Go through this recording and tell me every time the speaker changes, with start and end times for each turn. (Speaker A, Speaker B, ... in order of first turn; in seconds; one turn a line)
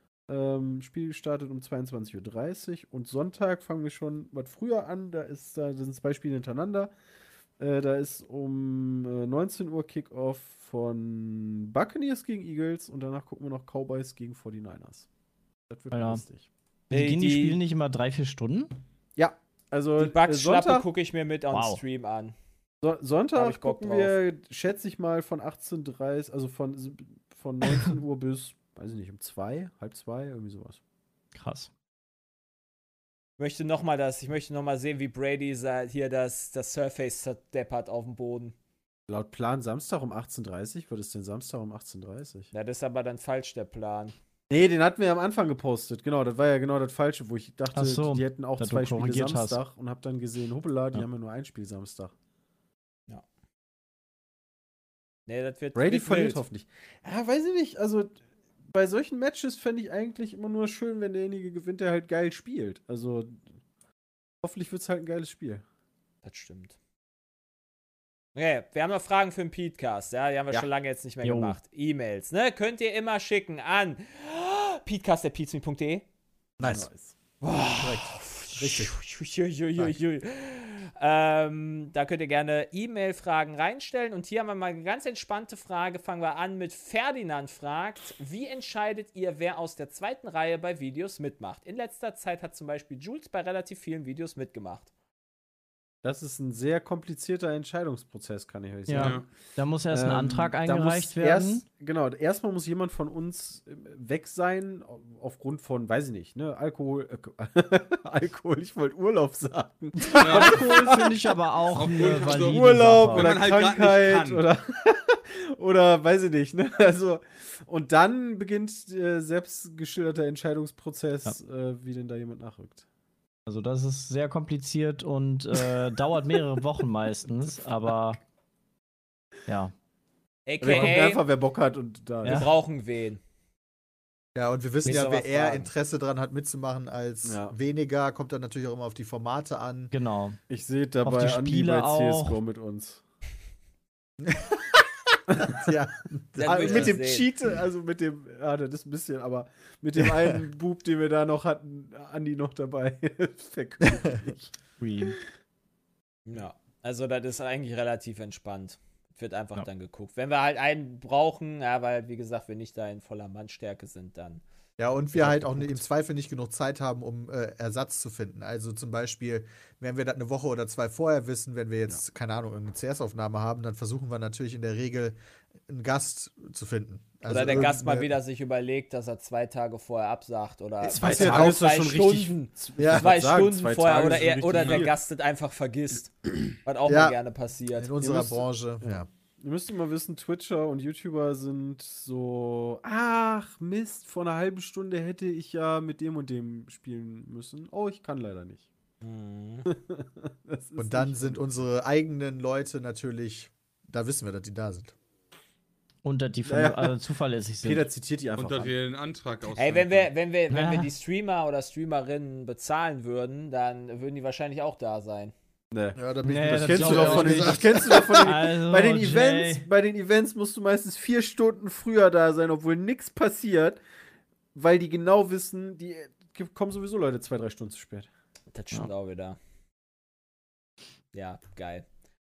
Speaker A: 0.3-6.9
Speaker A: 7.6-15.1
Speaker A: 15.7-16.5
Speaker B: 15.9-16.2
Speaker B: 16.9-18.7
Speaker C: 16.9-17.6
Speaker A: 19.2-20.9
Speaker C: 20.0-22.3
Speaker B: 21.5-21.8
Speaker A: 22.8-30.8
Speaker C: 23.3-24.2
Speaker B: 31.4-31.7
Speaker C: 33.4-38.5
Speaker A: 39.1-42.5
Speaker C: 42.5-44.1
Speaker A: 44.5-52.1
Speaker B: 47.7-49.6
Speaker C: 55.3-56.4
Speaker A: 55.8-63.4
Speaker A: 64.4-65.6
Speaker C: 66.2-66.8
Speaker C: 68.3-76.0
Speaker B: 71.2-71.6
Speaker D: 76.6-76.9
Speaker A: 76.6-77.1
Speaker C: 77.4-94.9
Speaker D: 77.5-79.0
Speaker A: 96.0-99.3
Speaker B: 98.9-101.6
Speaker E: 99.0-99.3
Speaker A: 99.9-111.3
Speaker B: 110.1-113.4
Speaker E: 110.2-110.6
Speaker E: 111.7-114.4
Speaker A: 112.2-122.8
Speaker B: 123.5-128.2
Speaker B: 129.5-129.7
Speaker C: 130.5-131.2
Speaker A: 130.6-132.4
Speaker B: 132.2-132.5
Speaker C: 132.2-133.2
Speaker D: 134.3-139.9
Speaker C: 134.8-135.7
Speaker A: 137.2-137.6
Speaker B: 139.9-140.4
Speaker A: 140.5-143.0
Speaker B: 141.0-142.4
Speaker D: 144.2-144.7
Speaker A: 145.3-145.7
Speaker D: 145.4-147.0
Speaker C: 146.4-147.3
Speaker A: 146.4-154.5
Speaker D: 150.0-150.4
Speaker D: 153.8-154.3
Speaker B: 154.8-155.2
Speaker C: 156.3-164.4
Speaker D: 164.8-175.2
Speaker A: 165.2-165.8
Speaker D: 175.7-178.1
Speaker C: 177.2-188.4
Speaker A: 177.4-177.7
Speaker A: 180.8-184.9
Speaker D: 181.0-181.7
Speaker D: 182.8-183.1
Speaker E: 184.5-184.8
Speaker D: 186.9-187.2
Speaker D: 187.7-189.1
Speaker A: 188.8-198.7
Speaker C: 199.0-199.7
Speaker A: 199.7-201.5
Speaker D: 200.8-204.9
Speaker B: 206.0-207.9
Speaker A: 206.4-206.9
Speaker A: 207.6-208.8
Speaker E: 208.4-210.1
Speaker C: 209.6-215.3
Speaker B: 210.5-210.9
Speaker A: 215.7-223.8
Speaker D: 216.0-218.4
Speaker B: 216.2-219.7
Speaker A: 224.5-228.1
Speaker C: 228.5-229.4
Speaker C: 231.1-231.8